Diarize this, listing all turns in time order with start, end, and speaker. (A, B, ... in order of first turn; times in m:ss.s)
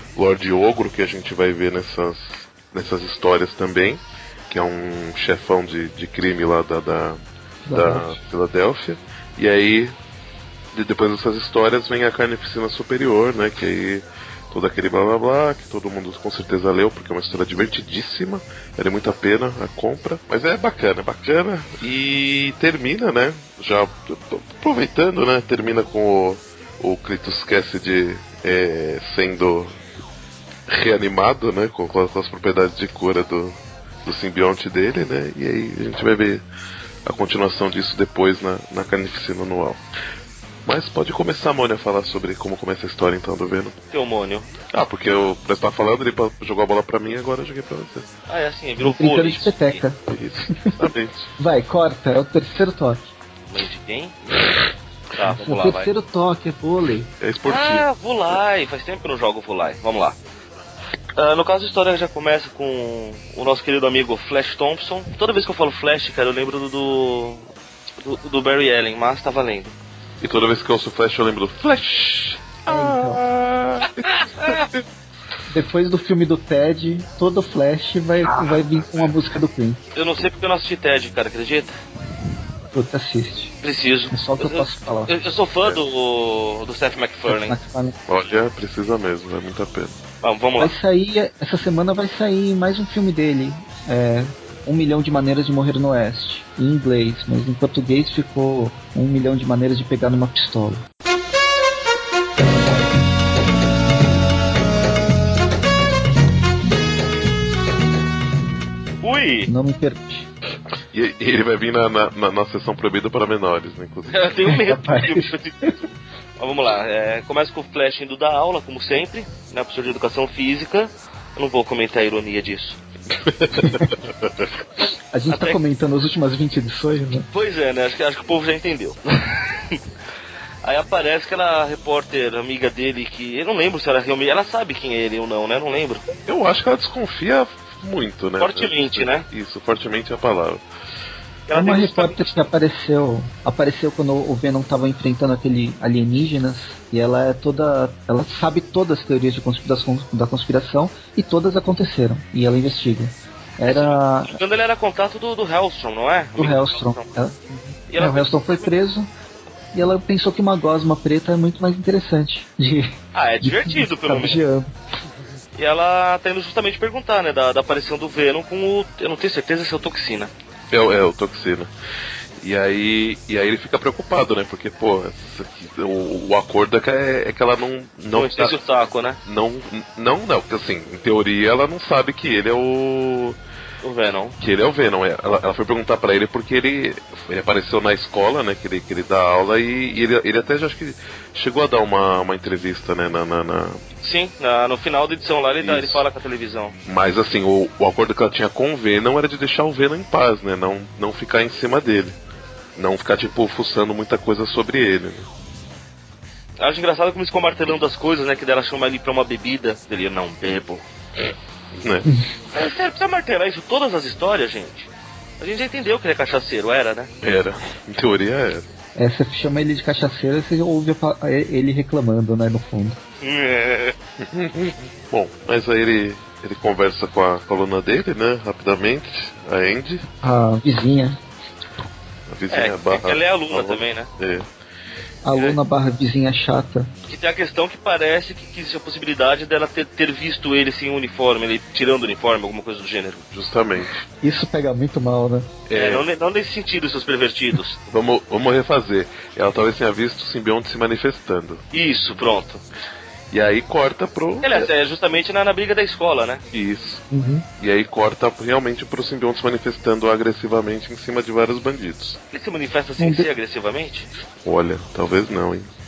0:00.2-0:10.0 A
0:07.6-0:08.2 B
0:10.7-0:29.8 A
0:30.7-0:36.4 A
0:37.0-0:39.8 A
0:40.6-0:43.8 A
0:43.9-0:44.5 C
0:44.7-0:48.1 A
0:48.3-0:49.8 C
0:48.8-0:50.8 B
0:50.1-0:51.3 A
0:51.4-0:53.1 B
0:53.5-0:54.2 C
0:55.1-0:55.9 C
0:55.3-0:57.1 B
0:57.2-0:57.9 A
0:57.4-1:00.2 C
1:01.2-1:07.5 C
1:08.0-1:09.7 C
1:10.2-1:14.6 A
1:12.7-1:13.2 B
1:14.0-1:14.6 C
1:15.5-1:19.8 B
1:20.0-1:21.8 C
1:22.7-1:23.6 B
1:23.6-1:27.6 C
1:24.1-1:25.2 B
1:27.3-1:28.0 B
1:28.1-1:30.0 A
1:30.2-1:30.8 C
1:30.6-1:40.8 B
1:49.0-1:49.5 C
1:49.5-1:50.3 B
1:50.9-1:54.3 A
1:54.1-2:02.8 C
1:54.5-1:55.3 B
2:03.2-2:04.3 A
2:03.6-2:03.9 B
2:05.1-2:07.3 B
2:05.3-2:05.6 C
2:07.3-2:09.8 C
2:10.6-2:16.0 C
2:16.2-2:20.6 A
2:18.4-2:19.2 C
2:21.5-2:22.4 C
2:21.5-2:34.4 B
2:33.6-2:37.1 C
2:36.4-2:39.1 B
2:37.9-2:38.6 C
2:39.7-2:44.7 B
2:43.1-2:44.4 C
2:45.6-2:50.3 C
2:50.7-2:51.7 A
2:52.4-2:58.6 A
2:58.1-2:59.2 C
2:59.2-3:03.4 A
3:03.8-3:04.4 C
3:04.4-3:13.8 A
3:14.0-3:16.8 C
3:15.6-3:16.0 A
3:16.8-3:22.2 A
3:22.8-3:25.3 A
3:26.6-3:30.8 C
3:31.8-3:32.1 A
3:32.5-3:37.1 C
3:37.2-3:38.6 A
3:39.0-3:43.0 B
3:43.2-3:44.0 C
3:44.2-3:50.1 A
3:50.2-3:51.2 B
3:52.3-3:54.5 A
3:52.5-3:54.1 C
3:55.2-3:56.9 B
3:57.1-4:03.2 C
4:03.3-4:04.0 A
4:04.2-4:05.5 B
4:05.7-4:06.0 A
4:05.8-4:07.8 C
4:07.9-4:11.6 A
4:11.7-4:12.6 C
4:13.3-4:14.6 A
4:14.4-4:16.4 C
4:16.5-4:17.0 A
4:17.1-4:17.4 B
4:17.6-4:22.2 A
4:22.3-4:24.1 C
4:23.0-4:23.3 B
4:24.4-4:25.7 A